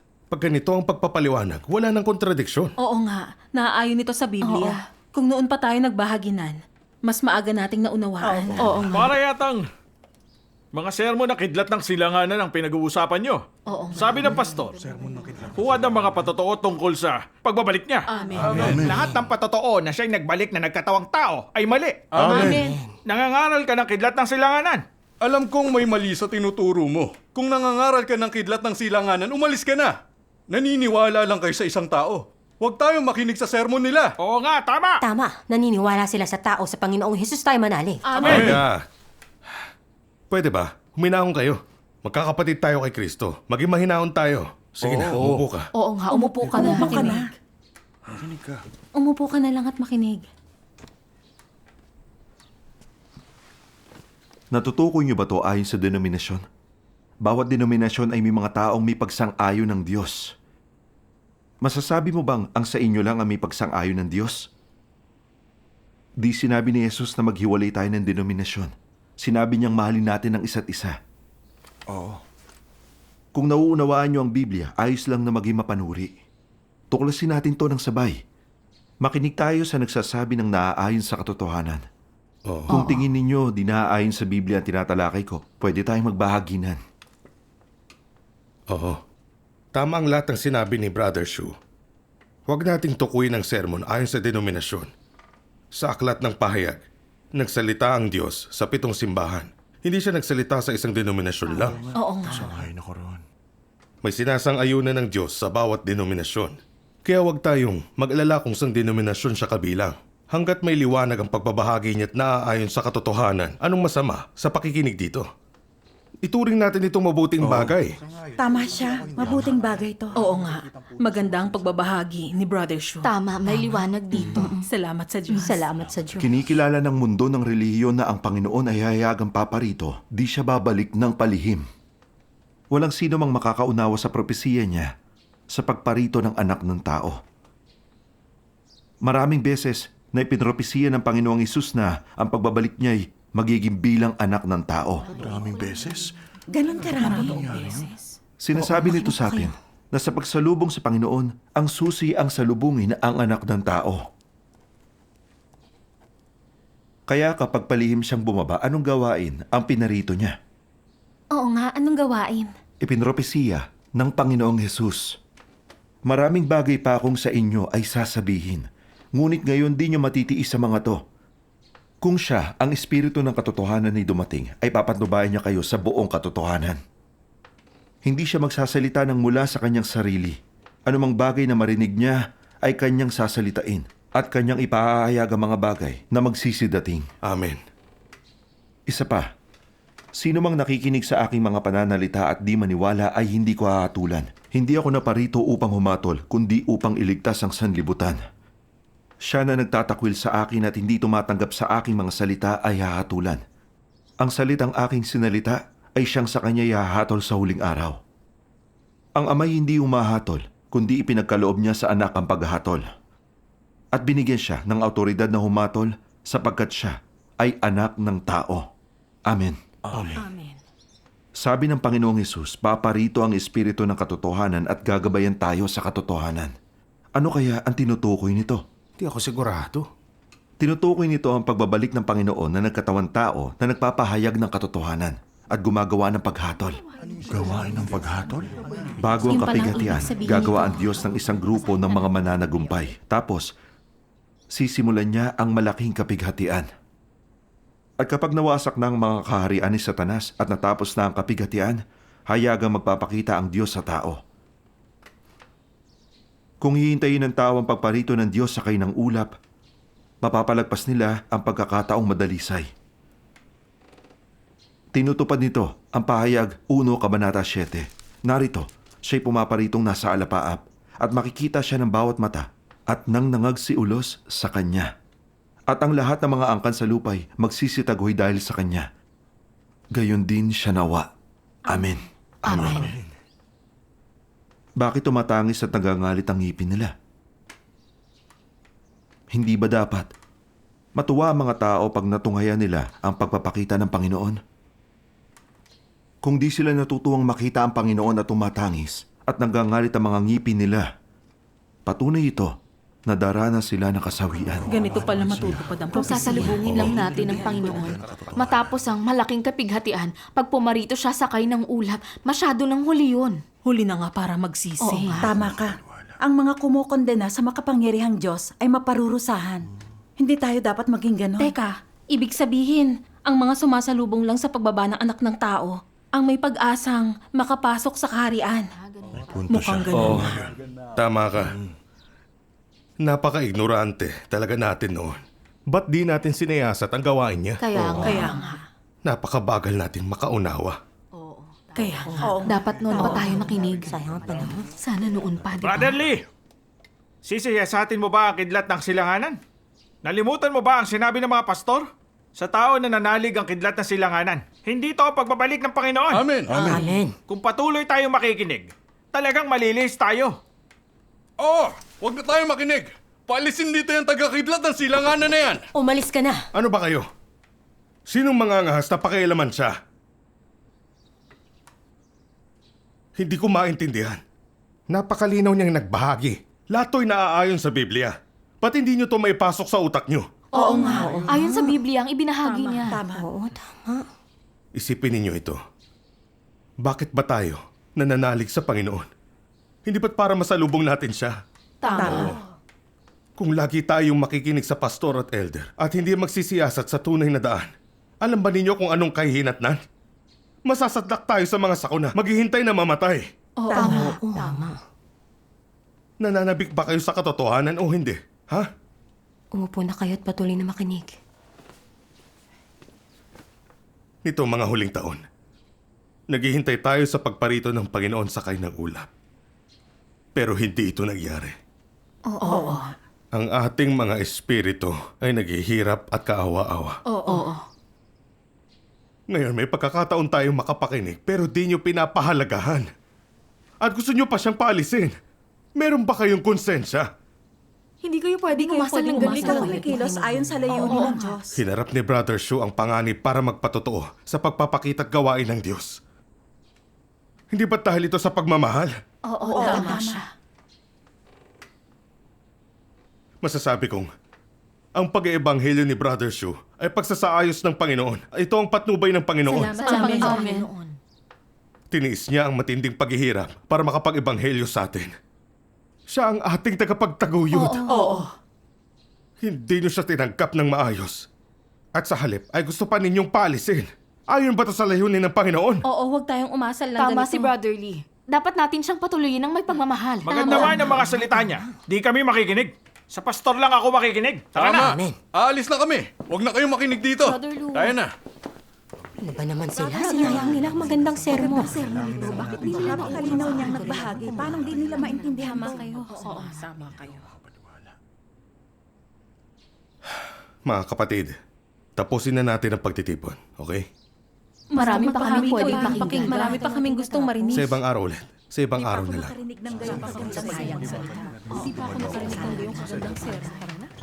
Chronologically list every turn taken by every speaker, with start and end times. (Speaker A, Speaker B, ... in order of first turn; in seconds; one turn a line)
Speaker A: 0.3-2.7
Speaker B: 2.8-8.9
Speaker C: 4.4-4.8
Speaker D: 8.4-8.7
Speaker C: 8.5-9.0
Speaker E: 8.9-9.7
Speaker E: 10.7-14.8
Speaker C: 13.7-15.4
Speaker E: 15.5-22.6
Speaker D: 18.5-19.1
Speaker F: 22.1-22.6
Speaker G: 22.5-22.9
Speaker E: 23.1-24.9
Speaker F: 25.2-34.1
Speaker E: 34.2-35.0
Speaker G: 35.0-38.4
Speaker B: 38.0-38.3
Speaker F: 38.2-38.7
Speaker A: 38.3-38.8
Speaker A: 40.3-45.7
Speaker D: 44.8-45.1
Speaker F: 45.1-45.5
Speaker C: 45.8-47.2
Speaker B: 46.1-47.1
Speaker H: 46.7-47.3
Speaker D: 48.2-48.6
Speaker B: 49.0-50.3
Speaker I: 54.5-56.4
Speaker I: 57.2-60.4
Speaker I: 61.6-64.5
Speaker I: 66.2-71.0
Speaker D: 71.9-72.2
Speaker I: 73.3-76.1
Speaker I: 76.9-78.2
Speaker I: 79.0-81.8
Speaker A: 82.5-82.7
Speaker I: 82.7-86.8
Speaker C: 82.7-83.0
Speaker A: 88.7-89.0
Speaker A: 89.7-91.5
Speaker A: 92.5-94.9
Speaker A: 95.7-96.8
Speaker A: 97.4-101.8
Speaker D: 101.5-103.2
Speaker B: 102.0-102.5
Speaker A: 104.0-115.3
Speaker A: 116.2-117.9
Speaker D: 117.4-117.8
Speaker H: 118.4-120.2
Speaker D: 119.2-119.7
Speaker B: 120.2-123.1
Speaker C: 123.0-124.7
Speaker G: 123.5-124.6
Speaker B: 124.7-125.9
Speaker C: 125.3-125.6
Speaker G: 125.5-126.3
Speaker I: 126.2-131.7
Speaker I: 132.7-134.9
Speaker I: 135.5-137.2
Speaker I: 139.1-145.1
Speaker C: 145.0-146.1
Speaker D: 145.1-146.1
Speaker H: 146.5-147.8
Speaker D: 146.9-147.9
Speaker B: 147.0-148.0
Speaker I: 148.4-154.0
Speaker G: 148.6-149.5
Speaker I: 157.1-160.3
Speaker B: 161.3-162.5
Speaker I: 162.8-165.2
Speaker I: 166.1-171.0
Speaker I: 172.0-176.8
Speaker I: 178.1-187.1
Speaker A: 187.2-187.6
Speaker I: 188.9-189.3
Speaker I: 190.2-198.2
Speaker I: 199.3-203.4
Speaker I: 204.2-208.0
Speaker I: 209.2-212.8
Speaker I: 213.9-218.7
Speaker I: 219.3-219.6
Speaker D: 219.9-220.3
Speaker G: 220.2-220.6
Speaker I: 221.4-226.5
Speaker I: 227.2-228.6
Speaker A: 229.0-229.9
Speaker I: 230.6-236.8
Speaker D: 237.3-238.6
Speaker I: 239.0-243.5
Speaker B: 239.3-240.8
Speaker I: 244.5-246.7
Speaker I: 248.0-254.2
Speaker I: 256.6-259.3
Speaker I: 260.2-262.7
Speaker I: 264.9-274.9
Speaker I: 275.7-278.9
Speaker I: 280.0-281.1
Speaker I: 281.7-282.9
Speaker C: 282.5-282.9
Speaker D: 282.5-282.9
Speaker I: 284.8-286.9
Speaker I: 289.3-290.1
Speaker I: 291.0-294.4
Speaker I: 296.2-300.9
Speaker I: 301.9-302.5
Speaker I: 303.1-304.7
Speaker B: 304.7-306.7
Speaker D: 304.8-308.7
Speaker C: 305.9-313.4
Speaker A: 306.7-307.0
Speaker B: 313.6-315.2
Speaker C: 314.8-315.3
Speaker H: 315.2-319.7
Speaker D: 315.3-316.1
Speaker H: 320.2-321.5
Speaker B: 321.4-328.7
Speaker C: 328.8-330.1
Speaker D: 329.2-330.5
Speaker B: 329.5-330.3
Speaker A: 331.0-331.5
Speaker A: 333.0-338.3
Speaker C: 337.6-338.6
Speaker H: 338.0-338.3
Speaker B: 338.1-338.6
Speaker A: 339.1-340.8
Speaker C: 341.1-346.0
Speaker G: 342.0-344.7
Speaker H: 342.2-343.2
Speaker E: 345.6-346.2
Speaker E: 347.2-349.4
Speaker E: 350.0-360.4
Speaker F: 356.1-356.6
Speaker G: 356.5-357.1
Speaker F: 361.4-365.7
Speaker G: 365.7-366.4
Speaker A: 366.5-367.1
Speaker A: 368.1-369.8
Speaker A: 373.2-374.2
Speaker A: 374.9-380.3
Speaker C: 380.5-383.0
Speaker H: 380.6-381.1
Speaker G: 380.9-381.8
Speaker B: 382.5-382.9
Speaker H: 382.9-383.3
Speaker G: 383.1-384.1
Speaker A: 384.8-385.6
Speaker A: 386.8-389.1
Speaker A: 389.9-391.4
Speaker C: 391.8-392.3
Speaker H: 391.9-392.3
Speaker A: 392.0-392.4
Speaker A: 393.4-397.7
Speaker A: 398.2-399.8
Speaker A: 400.7-403.3
Speaker B: 403.6-404.1
Speaker H: 403.7-404.6
Speaker C: 403.8-404.2
Speaker G: 403.8-404.8
Speaker A: 406.2-408.7
Speaker G: 409.5-411.1
Speaker A: 414.2-415.2
Speaker A: 416.3-419.1
Speaker A: 420.4-421.6
Speaker B: 422.3-422.8
Speaker C: 422.4-422.9
Speaker A: 423.3-427.0
Speaker B: 427.1-427.5
Speaker C: 427.3-427.7
Speaker A: 429.3-432.9
Speaker A: 433.8-435.1
Speaker A: 435.8-437.1
Speaker C: 438.0-440.1
Speaker H: 438.5-441.6
Speaker G: 438.9-441.0
Speaker C: 440.8-441.4
Speaker A: 441.6-446.0
Speaker A: 447.5-448.9
Speaker B: 449.4-449.9
Speaker C: 449.4-450.2
Speaker H: 449.5-450.2
Speaker A: 453.4-454.1
Speaker A: 454.9-460.6
Speaker B: 459.6-460.5
Speaker C: 459.8-461.0
Speaker A: 461.9-465.1
Speaker A: 466.1-467.8
Speaker B: 467.5-468.2
Speaker C: 467.8-468.3
Speaker A: 469.4-471.3
Speaker A: 471.9-475.9
Speaker B: 475.9-477.5
Speaker C: 477.0-480.7
Speaker E: 480.2-484.9
Speaker B: 480.3-480.6
Speaker G: 480.6-481.7
Speaker F: 484.6-488.1
Speaker G: 484.6-485.2
Speaker C: 487.2-488.0
Speaker G: 489.2-491.9
Speaker H: 489.7-490.3
Speaker C: 489.9-490.7
Speaker H: 491.3-491.7
Speaker C: 491.7-493.7
Speaker H: 492.6-496.1
Speaker B: 493.7-494.1
Speaker B: 495.4-497.3
Speaker C: 496.2-496.7
Speaker A: 500.7-501.4
Speaker A: 502.0-503.9
Speaker B: 504.7-507.8
Speaker C: 504.8-506.7
Speaker G: 506.4-507.7
Speaker A: 507.5-509.4
Speaker H: 508.8-510.9
Speaker B: 510.0-513.8
Speaker G: 510.6-511.0
Speaker C: 511.5-513.9